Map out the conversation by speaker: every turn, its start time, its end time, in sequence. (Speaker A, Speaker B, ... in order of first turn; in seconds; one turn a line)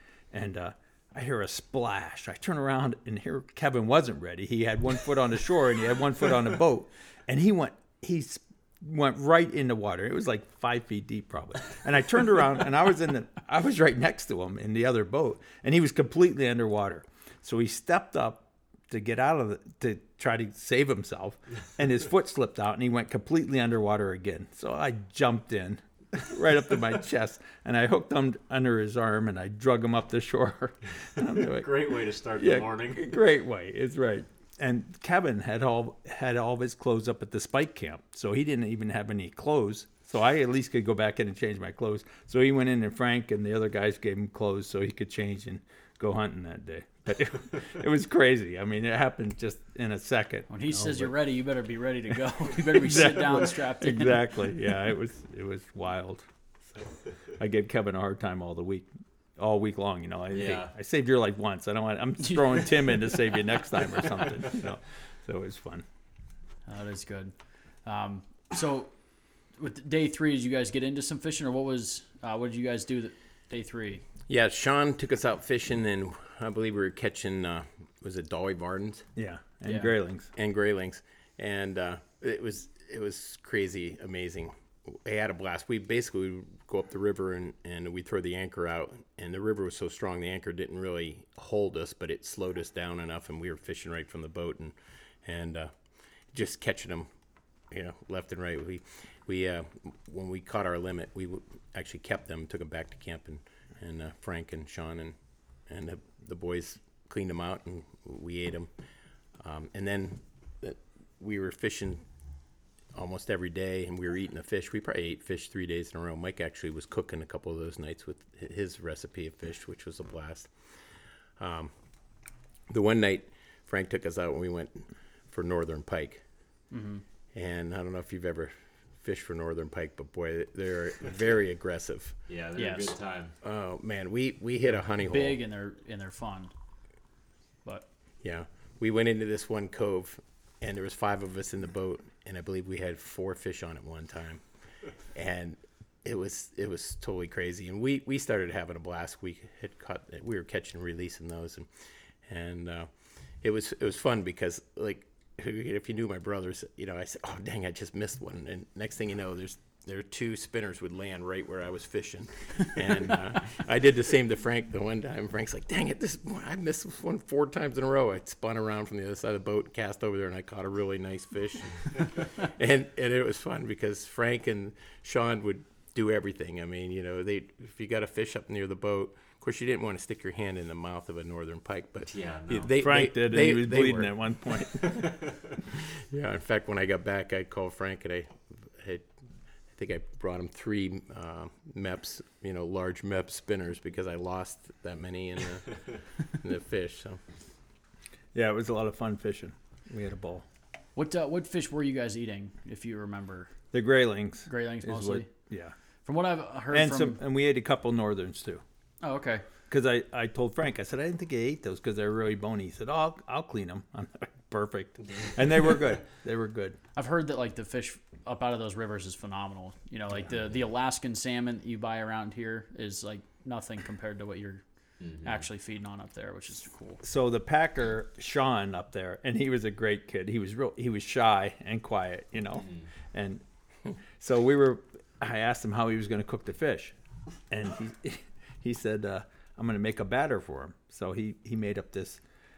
Speaker A: 0.3-51.1
Speaker B: 31.4-33.1
Speaker C: 50.5-54.2
Speaker A: 52.7-65.8
Speaker B: 60.3-60.7
Speaker C: 66.7-68.9
Speaker C: 69.5-74.0
Speaker D: 74.3-79.1
Speaker A: 79.2-80.3
Speaker C: 79.7-79.9
Speaker D: 80.3-97.1
Speaker D: 97.7-108.7
Speaker D: 109.4-112.1
Speaker D: 113.0-121.7
Speaker D: 122.7-126.2
Speaker C: 126.7-127.0
Speaker D: 127.3-132.2
Speaker B: 132.3-133.3
Speaker C: 132.6-132.9
Speaker D: 133.4-135.4
Speaker C: 135.1-136.5
Speaker D: 138.2-151.7
Speaker D: 152.2-184.1
Speaker B: 182.1-182.7
Speaker A: 182.8-185.2
Speaker D: 186.1-189.1
Speaker D: 189.7-197.2
Speaker A: 198.3-200.4
Speaker C: 201.0-203.5
Speaker A: 203.7-205.8
Speaker C: 204.5-205.3
Speaker C: 206.1-207.2
Speaker A: 206.7-208.6
Speaker C: 209.0-209.4
Speaker A: 209.7-216.8
Speaker C: 216.9-227.0
Speaker B: 225.0-225.4
Speaker A: 227.0-233.4
Speaker A: 234.2-236.9
Speaker A: 237.5-242.2